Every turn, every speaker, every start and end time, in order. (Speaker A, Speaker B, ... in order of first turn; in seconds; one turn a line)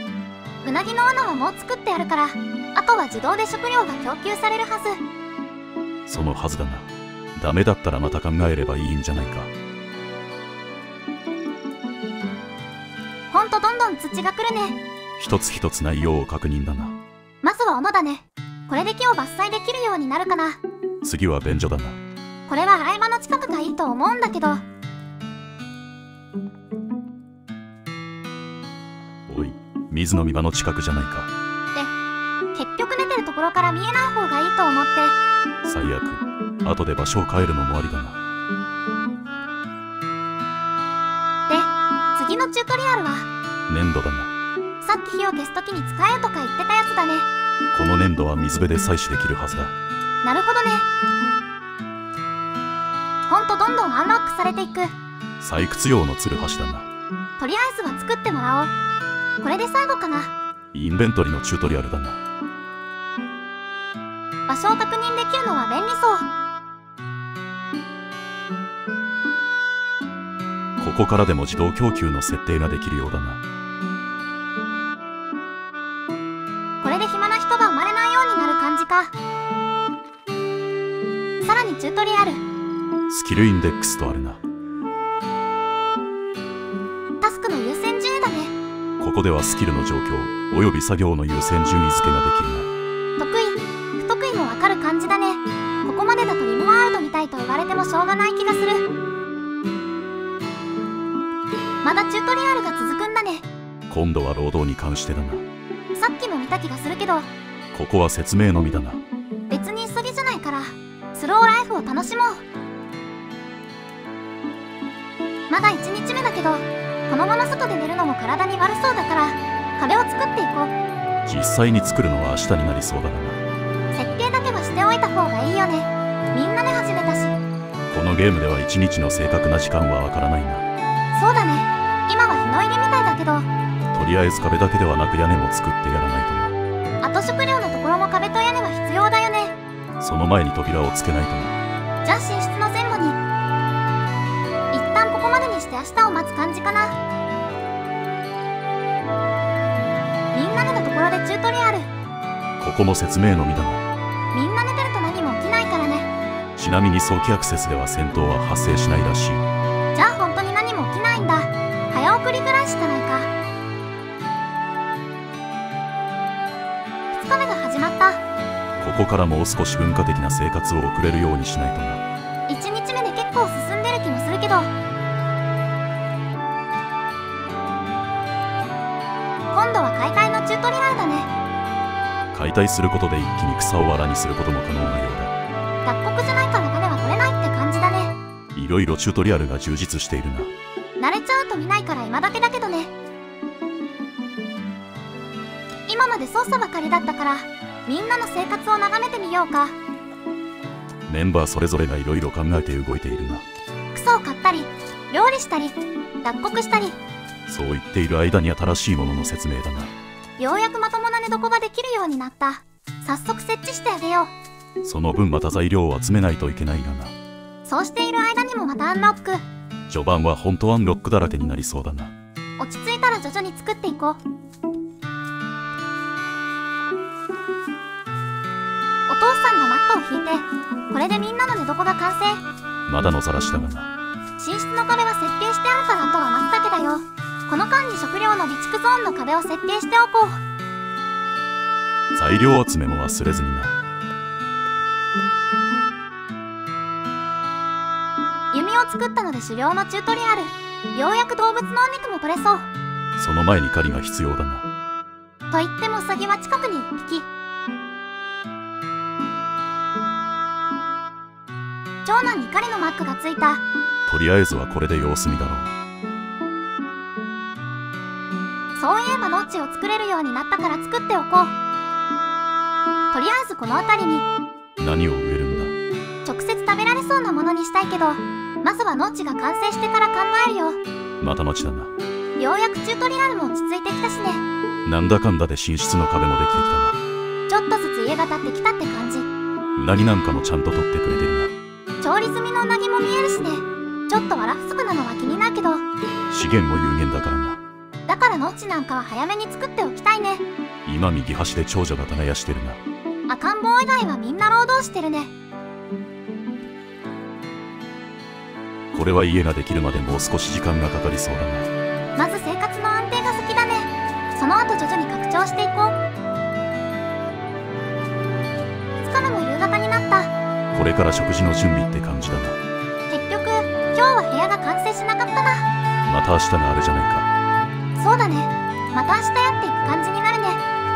Speaker A: 0.6-5.0
Speaker B: 6.1-9.5
Speaker A: 13.3-14.8
Speaker B: 15.2-16.9
Speaker A: 17.4-20.6
Speaker B: 21.0-22.0
Speaker A: 22.5-24.6
Speaker B: 29.3-31.3
Speaker A: 32.5-35.1
Speaker B: 35.6-38.2
Speaker A: 41.5-43.3
Speaker B: 43.7-44.3
Speaker A: 44.8-47.3
Speaker B: 47.7-49.7
Speaker A: 50.2-50.9
Speaker A: 53.2-54.9
Speaker B: 55.4-56.9
Speaker A: 57.4-58.8
Speaker A: 59.4-60.3
Speaker B: 60.7-62.2
Speaker A: 64.5-66.2
Speaker B: 70.8-73.4
Speaker A: 76.8-79.1
Speaker A: 81.4-82.4
Speaker B: 83.1-84.4
Speaker A: 87.2-88.5
Speaker B: 89.0-92.7
Speaker A: 93.2-98.9
Speaker A: 101.8-103.5
Speaker B: 103.9-105.5
Speaker A: 105.9-107.3
Speaker B: 107.7-109.0
Speaker A: 109.5-112.4
Speaker A: 115.5-120.8
Speaker B: 121.2-123.4
Speaker A: 123.9-127.4
Speaker B: 127.9-130.6
Speaker A: 131.1-133.5
Speaker B: 133.9-136.6
Speaker A: 137.0-139.6
Speaker B: 140.0-141.5
Speaker A: 142.0-143.2
Speaker A: 144.7-146.9
Speaker A: 150.3-151.9
Speaker B: 152.6-153.8
Speaker A: 154.3-156.1
Speaker B: 156.6-159.4
Speaker A: 159.9-163.3
Speaker A: 167.1-168.2
Speaker B: 168.8-172.0
Speaker A: 172.5-174.7
Speaker A: 179.5-181.3
Speaker B: 182.3-185.3
Speaker A: 185.8-188.1
Speaker B: 188.5-190.5
Speaker A: 191.0-192.9
Speaker A: 195.9-199.8
Speaker B: 201.1-203.4
Speaker A: 203.9-207.0
Speaker B: 207.5-209.9
Speaker A: 210.4-214.3
Speaker B: 214.8-217.1
Speaker A: 217.6-219.4
Speaker B: 219.9-222.1
Speaker A: 222.6-224.2
Speaker A: 229.1-232.4
Speaker B: 232.9-233.9
Speaker A: 234.4-240.4
Speaker B: 242.1-243.8
Speaker A: 248.5-252.7
Speaker B: 253.2-254.7
Speaker A: 255.5-257.3
Speaker A: 262.0-263.6
Speaker B: 264.1-265.7
Speaker A: 268.8-271.5
Speaker A: 273.1-274.3
Speaker B: 274.8-275.7
Speaker A: 276.2-280.8
Speaker B: 281.2-281.9
Speaker A: 282.4-284.4
Speaker B: 284.8-287.0
Speaker A: 287.5-289.3
Speaker B: 289.8-291.5
Speaker A: 292.0-295.8
Speaker B: 296.3-297.6
Speaker A: 298.1-300.4
Speaker B: 300.9-302.8
Speaker A: 303.3-305.3
Speaker B: 308.9-311.7
Speaker A: 312.1-316.0
Speaker A: 319.0-320.3
Speaker B: 320.7-322.6
Speaker A: 323.1-325.6
Speaker B: 326.1-327.3
Speaker A: 328.0-330.6